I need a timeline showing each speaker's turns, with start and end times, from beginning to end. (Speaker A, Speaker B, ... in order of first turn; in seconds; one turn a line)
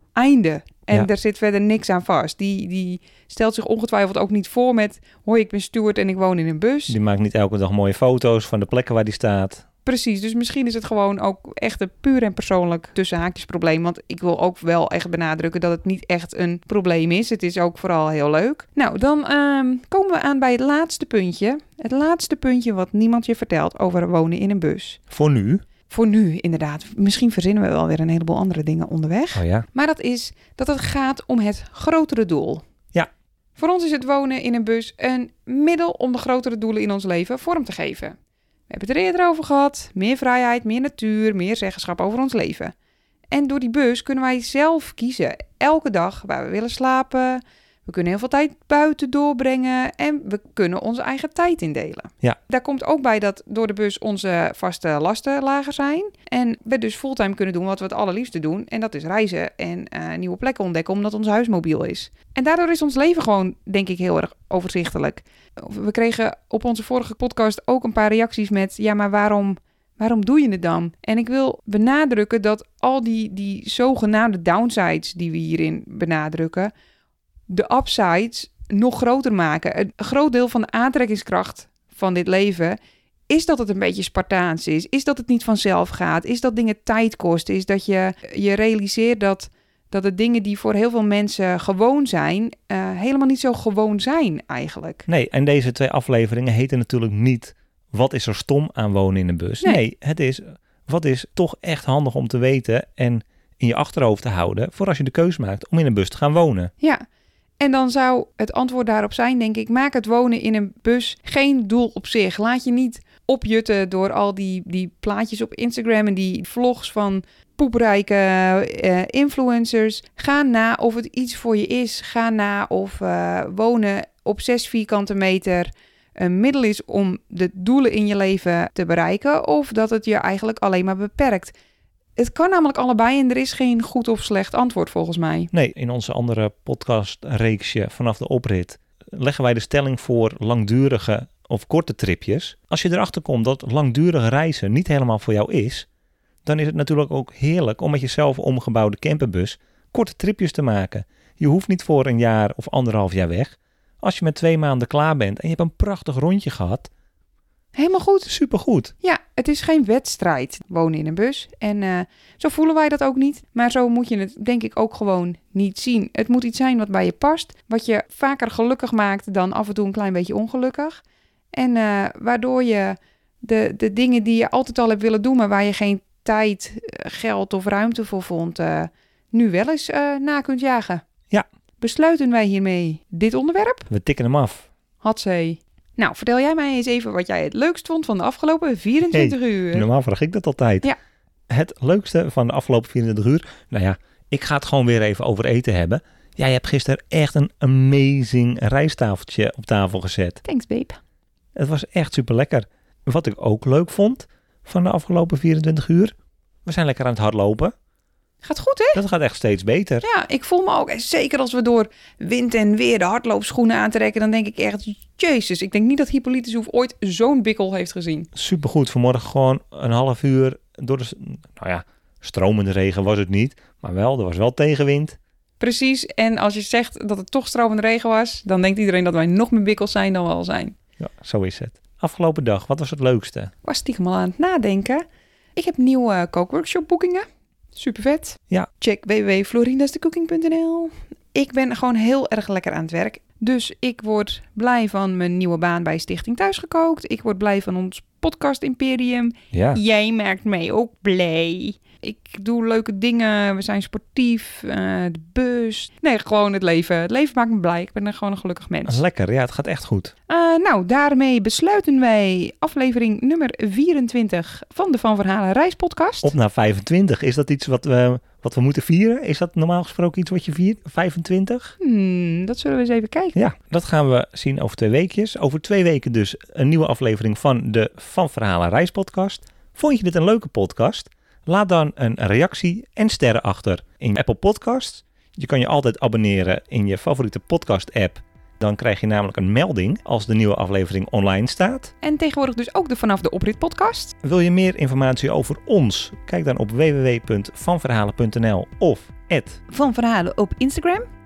Speaker A: 0.2-7.0
Speaker B: 6.9-9.7
Speaker A: 9.9-25.0
Speaker B: 25.1-25.6
Speaker A: 25.9-32.6
Speaker B: 29.4-29.7
Speaker A: 33.6-38.1
Speaker A: 38.7-42.7
Speaker A: 43.3-76.7
Speaker A: 77.5-82.8
Speaker A: 83.3-95.0
Speaker B: 95.1-106.7
Speaker A: 107.6-131.5
Speaker A: 132.2-135.5
Speaker B: 135.5-145.9
Speaker B: 146.4-156.9
Speaker A: 157.8-158.3
Speaker B: 158.3-158.9
Speaker A: 159.0-171.0
Speaker A: 171.5-181.0
Speaker A: 181.8-183.9
Speaker B: 183.9-184.7
Speaker A: 185.0-189.9
Speaker B: 189.1-190.9
Speaker B: 191.5-200.4
Speaker A: 200.4-201.0
Speaker B: 201.6-206.1
Speaker B: 206.7-207.7
Speaker A: 208.4-209.0
Speaker B: 208.9-210.1
Speaker A: 210.0-218.3
Speaker B: 218.3-225.2
Speaker A: 225.6-230.8
Speaker B: 231.0-233.5
Speaker A: 233.6-235.0
Speaker A: 235.6-259.0
Speaker B: 249.5-249.8
Speaker B: 258.9-260.1
Speaker A: 260.3-266.3
Speaker B: 266.2-271.8
Speaker A: 271.8-273.4
Speaker B: 273.4-291.9
Speaker A: 292.0-294.1
Speaker B: 294.2-299.6
Speaker A: 299.7-301.0